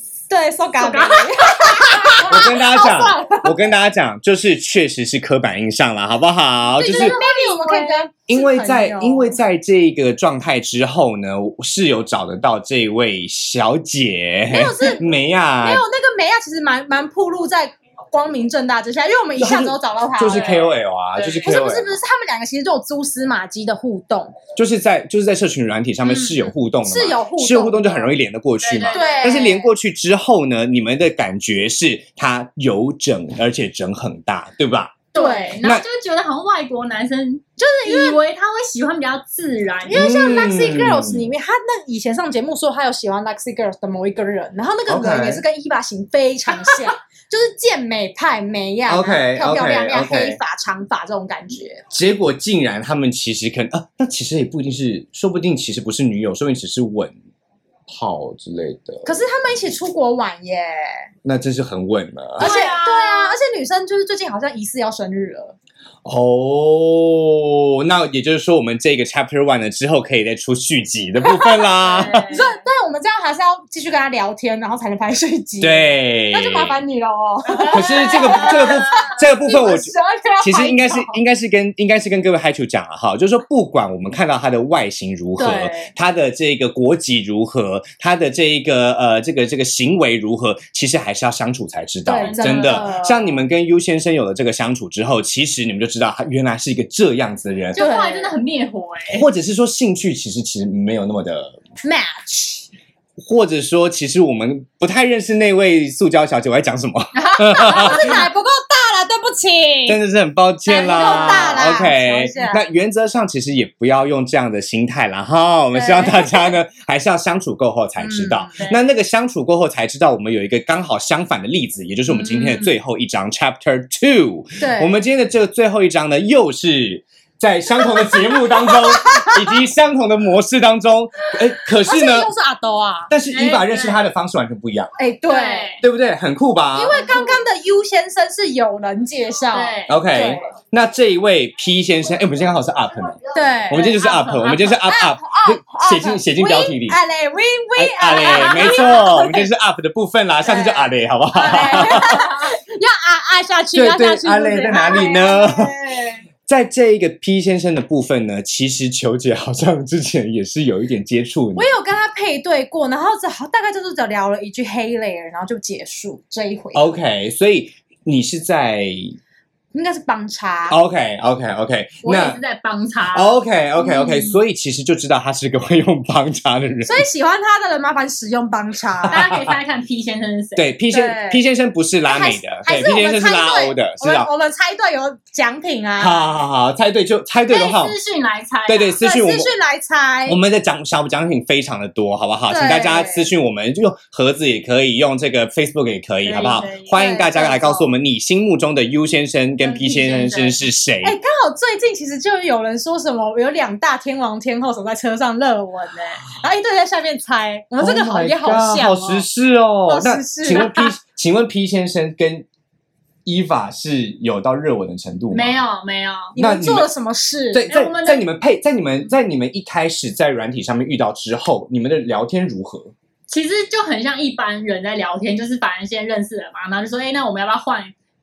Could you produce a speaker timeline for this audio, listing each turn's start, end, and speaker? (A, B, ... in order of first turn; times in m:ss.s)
0:00.3-0:03.6 A
0:00.8-0:02.4 B
0:02.2-0:07.2 C
0:06.8-0:09.4 A
0:06.8-0:08.0 B
0:08.3-0:15.8 C
0:14.5-0:15.1 A
0:15.6-0:20.6 A
0:19.4-0:22.0 C
0:20.3-0:21.5 B
0:21.4-0:24.4 A
0:24.6-0:35.0 C
0:26.0-0:26.5 B
0:26.8-0:28.1 A
0:28.6-0:29.5 B
0:28.9-0:29.7 A
0:35.1-0:35.6 A
0:35.1-0:40.0 B
0:37.6-0:38.2 A
0:39.8-0:51.8 A
0:39.9-0:41.3 C
0:44.9-0:45.4 C
0:46.5-0:46.8 B
0:48.9-0:50.4 C
0:51.9-0:57.1 C
0:57.9-0:59.1 C
0:59.0-1:01.1 A
1:01.2-1:02.5 C
1:02.4-1:03.4 B
1:02.4-1:05.5 A
1:06.0-1:12.3 C
1:11.3-1:11.6 A
1:11.8-1:12.6 B
1:12.3-1:21.2 A
1:15.6-1:16.8 C
1:17.5-1:19.2 B
1:17.7-1:37.8 C
1:25.4-1:25.9 A
1:32.0-1:33.4 A
1:32.1-1:32.9 B
1:37.7-1:39.2 B
1:37.8-1:38.3 A
1:39.1-1:41.6 C
1:41.8-1:42.7 A
1:43.2-1:48.1 C
1:47.1-1:48.3 B
1:47.5-1:50.0 A
1:49.8-2:12.3 C
1:50.7-1:52.6 A
1:51.0-1:51.5 B
1:55.7-1:56.6 A
1:58.0-1:58.6 A
2:02.1-2:02.7 B
2:04.6-2:05.0 A
2:07.8-2:09.6 A
2:11.8-2:13.1 A
2:13.1-2:14.9 C
2:13.3-2:14.0 B
2:15.0-2:15.8 A
2:15.3-2:15.8 B
2:15.8-2:17.0 C
2:16.7-2:20.5 A
2:16.9-2:17.4 B
2:19.5-2:20.0 B
2:19.9-2:27.0 C
2:23.3-2:23.9 A
2:23.7-2:24.8 B
2:24.8-2:29.5 A
2:27.8-2:32.1 C
2:28.1-2:29.0 B
2:30.4-2:36.2 A
2:31.5-2:32.6 B
2:33.7-2:35.7 C
2:36.5-2:41.7 C
2:41.6-2:46.8 A
2:46.7-2:49.2 C
2:49.7-2:50.8 A
2:50.7-2:52.4 C
2:52.0-2:53.4 B
2:53.1-2:57.0 C
2:53.8-2:54.4 A
2:56.8-2:59.2 A
2:59.0-3:00.6 B
2:59.1-2:59.5 C
3:00.6-3:04.3 C
3:00.9-3:01.4 A
3:02.1-3:06.3 A
3:06.0-3:07.9 C
3:07.5-3:09.0 B
3:08.7-3:09.5 C
3:09.0-3:10.4 A
3:10.2-3:21.2 C
3:12.5-3:13.3 A
3:16.2-3:17.0 B
3:16.9-3:17.9 A
3:19.6-3:20.6 B
3:21.0-3:29.3 A
3:27.8-3:32.4 C
3:29.9-3:30.7 A
3:30.5-3:30.9 B
3:33.2-3:35.6 C
3:35.3-3:36.3 B
3:36.3-3:37.6 A
3:36.4-3:36.9 C
3:37.5-3:42.9 C
3:37.7-3:38.2 B
3:43.3-3:47.9 B